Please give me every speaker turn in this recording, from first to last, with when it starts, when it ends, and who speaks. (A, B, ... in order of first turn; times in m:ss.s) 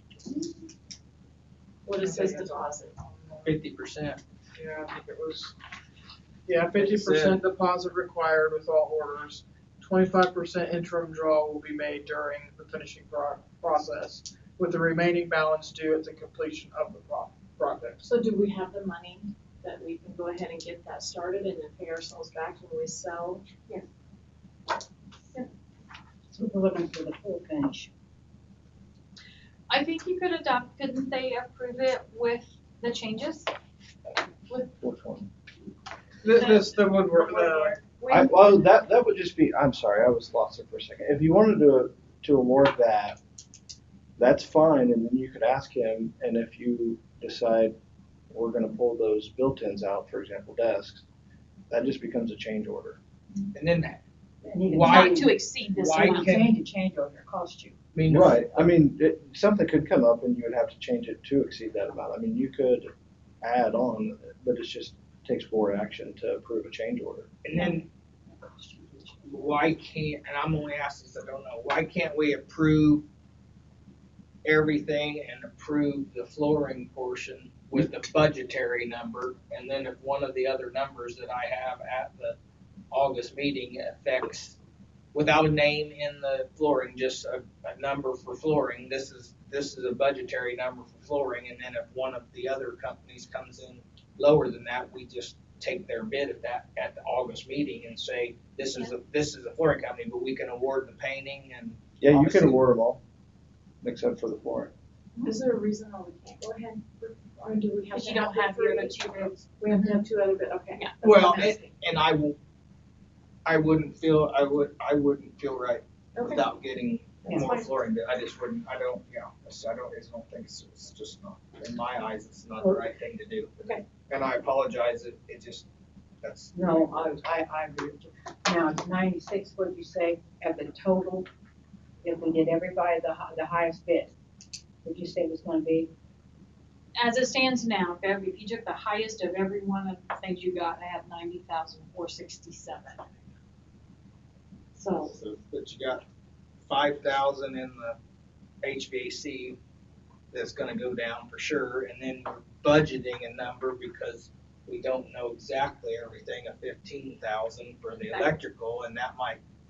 0:01.8-0:03.0 A
0:02.0-0:03.5 B
0:03.4-0:04.2 C
0:04.5-0:05.5 B
0:06.4-0:18.0 B
0:06.7-0:07.4 C
0:18.0-0:23.4 A
0:26.3-0:27.9 D
0:29.7-0:33.5 E
0:34.8-0:35.3 F
0:36.2-0:37.8 B
0:36.4-0:36.6 E
0:37.2-0:38.1 A
0:37.7-0:38.3 E
0:38.1-0:43.2 F
0:44.2-0:47.8 F
0:48.3-0:51.0 F
0:51.7-0:53.0 F
0:53.5-0:54.0 C
0:54.4-0:55.3 D
0:54.7-0:56.5 C
0:54.7-0:56.3 E
0:56.1-0:57.8 D
0:57.9-0:58.4 C
0:58.1-1:02.9 F
1:03.4-1:07.3 F
1:07.4-1:07.9 C
1:08.3-1:09.6 D
1:09.3-1:13.0 C
1:14.4-1:22.4 C
1:22.9-1:24.6 C
1:25.1-1:42.6 C
1:42.0-1:43.0 F
1:43.8-1:44.7 F
1:45.2-1:51.7 A
1:47.9-1:50.0 E
1:51.0-1:52.4 C
1:53.4-2:03.5 C
1:56.1-1:56.5 A
1:57.3-1:57.8 A
2:03.6-2:03.8 A
2:04.1-2:05.7 C
2:06.2-2:07.1 C
2:06.5-2:11.3 D
2:12.0-2:14.1 D
2:14.8-2:15.9 D
2:17.0-2:23.1 E
2:24.7-2:25.1 E
2:25.0-2:26.0 C
2:26.6-2:28.0 C
2:28.6-2:29.6 C
2:30.3-2:39.4 C
2:38.0-2:38.3 E